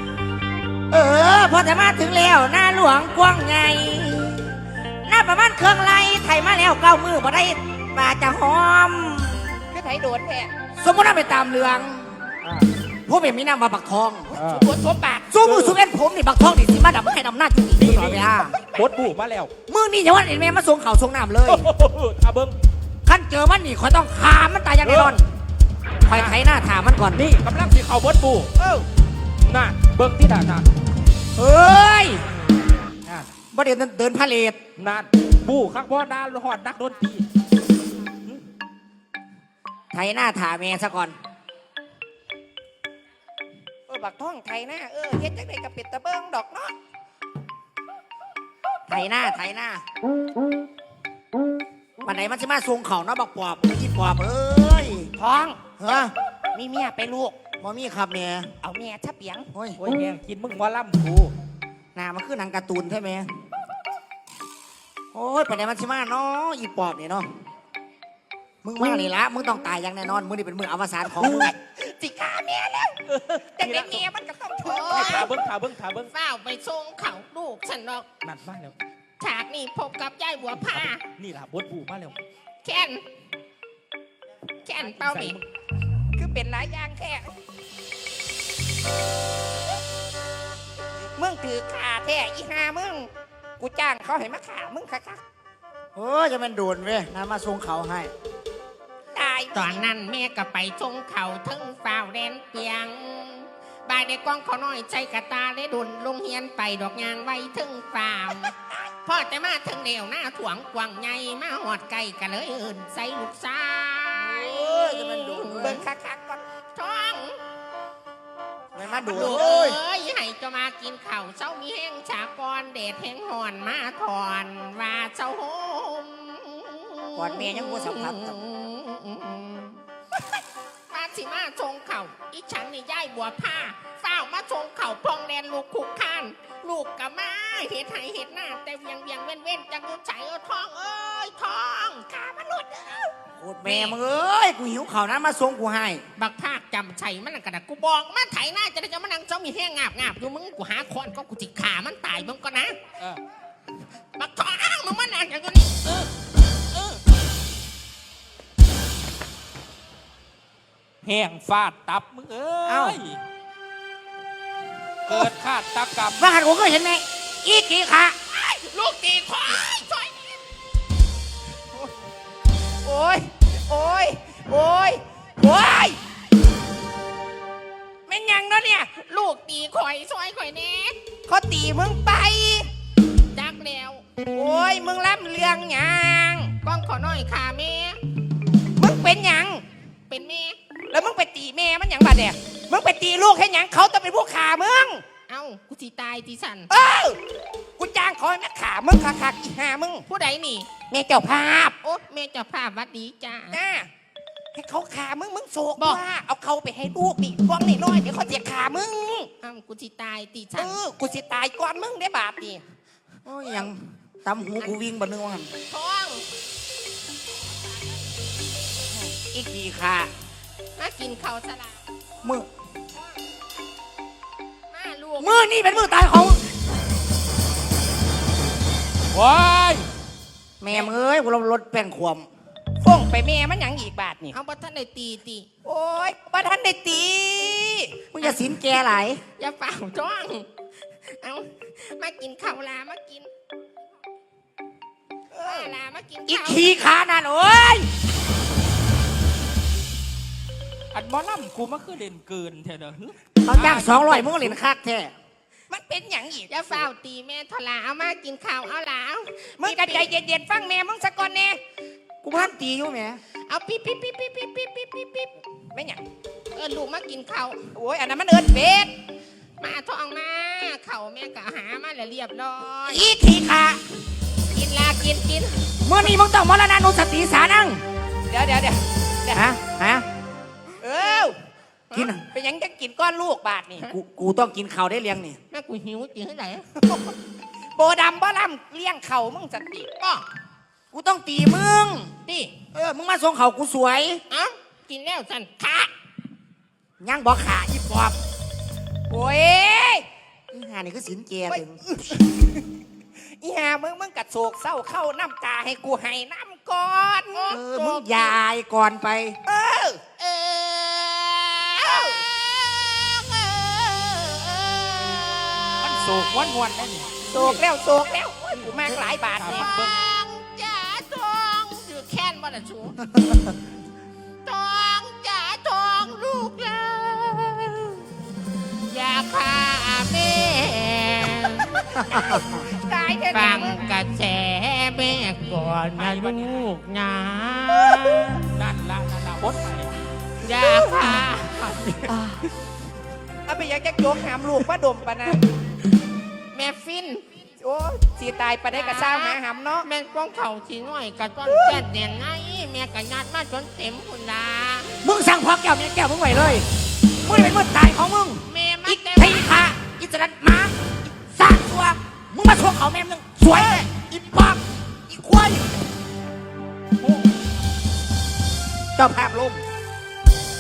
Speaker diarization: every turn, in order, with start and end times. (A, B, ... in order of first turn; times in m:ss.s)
0:00.9-0:09.6 A
0:09.7-0:10.5 B
0:10.8-0:12.2 A
0:12.4-0:12.7 C
0:13.1-0:14.4 A
0:14.3-0:14.7 C
0:14.4-0:15.3 B
0:15.3-0:18.6 A
0:15.4-0:15.8 C
0:17.8-0:19.5 C
0:19.7-0:21.6 A
0:21.5-0:22.6 C
0:23.1-0:25.3 A
0:24.8-0:25.2 C
0:26.1-0:27.2 A
0:26.1-0:26.4 C
0:27.1-0:28.5 C
0:28.6-0:28.8 B
0:29.4-0:30.7 C
0:31.4-0:32.2 A
0:33.5-0:34.6 A
0:34.8-0:37.2 C
0:39.9-0:41.2 A
0:43.9-0:46.8 B
0:48.9-0:49.8 A
0:52.0-0:55.1 A
0:55.2-0:55.7 B
0:55.8-0:56.1 A
0:56.5-0:57.4 B
0:57.6-0:58.6 A
0:58.6-0:59.5 B
0:59.5-0:59.8 A
0:59.8-1:01.3 C
1:02.0-1:03.4 A
1:05.1-1:07.3 A
1:08.6-1:11.5 A
1:11.2-1:13.0 B
1:13.1-1:14.1 C
1:13.6-1:15.3 B
1:14.6-1:15.3 D
1:14.8-1:16.1 C
1:16.1-1:18.1 D
1:18.2-1:18.8 C
1:19.2-1:21.0 D
1:20.5-1:22.2 C
1:22.6-1:23.0 D
1:24.6-1:25.4 D
1:24.8-1:25.4 C
1:26.2-1:27.3 B
1:31.2-1:35.2 B
1:36.0-1:38.1 A
1:39.1-1:39.9 B
1:39.5-1:48.5 D
1:49.0-1:55.8 D
1:54.2-1:55.8 A
1:55.6-1:56.4 B
1:56.8-1:57.4 D
1:58.7-1:59.8 A
1:58.8-2:09.8 D
2:07.2-2:08.4 A
2:10.9-2:23.1 D
2:23.4-2:26.0 A
2:23.6-2:24.0 D
2:26.2-2:32.8 D
2:34.2-2:35.9 D
2:41.0-2:43.2 C
2:42.7-2:43.0 A
2:45.1-2:46.2 C
2:46.2-2:48.2 A
2:48.6-2:50.4 D
2:52.8-2:56.0 B
2:58.1-2:58.9 B
2:58.9-3:01.0 D
3:01.3-3:02.7 B
3:03.4-3:04.0 D
3:04.3-3:06.6 B
3:06.6-3:08.0 D
3:08.8-3:09.6 B
3:10.1-3:10.6 D
3:10.9-3:15.0 B
3:15.3-3:16.7 D
3:16.7-3:17.2 B
3:17.8-3:20.0 B
3:20.1-3:20.8 D
3:20.8-3:21.8 B
3:21.8-3:23.6 D
3:23.5-3:23.9 B
3:24.5-3:29.3 B
3:25.8-3:26.0 D
3:29.4-3:30.8 D
3:30.6-3:32.6 B
3:33.3-3:35.5 A
3:35.7-3:36.3 D
3:39.3-3:40.1 A
3:40.8-3:41.8 D
3:42.2-3:42.5 A
3:44.7-3:45.4 D
3:45.2-3:46.5 A
3:49.1-3:49.9 C
3:50.6-3:52.3 A
3:50.7-3:50.9 D
3:52.8-3:54.4 B
3:54.3-3:55.5 D
3:55.6-3:58.0 B
3:58.1-3:59.2 A
3:59.4-4:00.5 D
4:01.2-4:03.3 D
4:05.3-4:05.7 B
4:05.4-4:06.7 D
4:06.3-4:07.9 A
4:10.9-4:14.6 C
4:13.4-4:15.1 A
4:15.7-4:16.8 B
4:16.4-4:20.1 D
4:19.6-4:21.6 B
4:22.2-4:23.2 A
4:23.4-4:25.4 D
4:25.7-4:26.0 B
4:26.5-4:27.7 D
4:27.8-4:28.9 B
4:29.6-4:33.1 D
4:32.9-4:33.8 A
4:34.5-4:35.7 D
4:35.8-4:37.8 A
4:38.3-4:39.5 B
4:39.3-4:40.1 A
4:40.8-4:41.4 B
4:41.9-4:42.2 A
4:42.2-4:43.9 B
4:43.8-4:45.4 A
4:45.5-4:46.7 D
4:47.8-4:49.9 B
4:49.9-4:50.2 D
4:50.9-4:52.1 A
4:52.3-4:52.5 D
4:52.7-4:54.2 A
4:54.3-4:55.9 D
4:57.0-4:58.2 A
4:59.1-5:00.1 B
5:00.5-5:01.8 A
5:01.5-5:02.6 B
5:03.4-5:08.1 B
5:07.5-5:09.4 A
5:09.5-5:10.0 B
5:10.1-5:16.3 D
5:11.8-5:12.2 B
5:15.8-5:17.6 C
5:17.3-5:19.6 B
5:19.4-5:20.0 C
5:19.4-5:23.0 D
5:24.4-5:28.0 D
5:28.9-5:32.4 D
5:32.1-5:32.6 A
5:32.7-5:33.9 B
5:33.3-5:38.5 D
5:35.9-5:36.7 C
5:38.5-5:40.0 C
5:40.4-5:42.1 D
5:43.5-5:45.4 B
5:46.5-5:47.2 D
5:47.6-5:49.9 B
5:48.7-5:54.9 D
5:51.4-5:51.8 B
5:55.0-5:56.7 A
5:57.2-6:05.7 A
5:58.4-5:59.5 D
6:03.5-6:03.8 D
6:07.0-6:07.3 C
6:09.0-6:09.6 A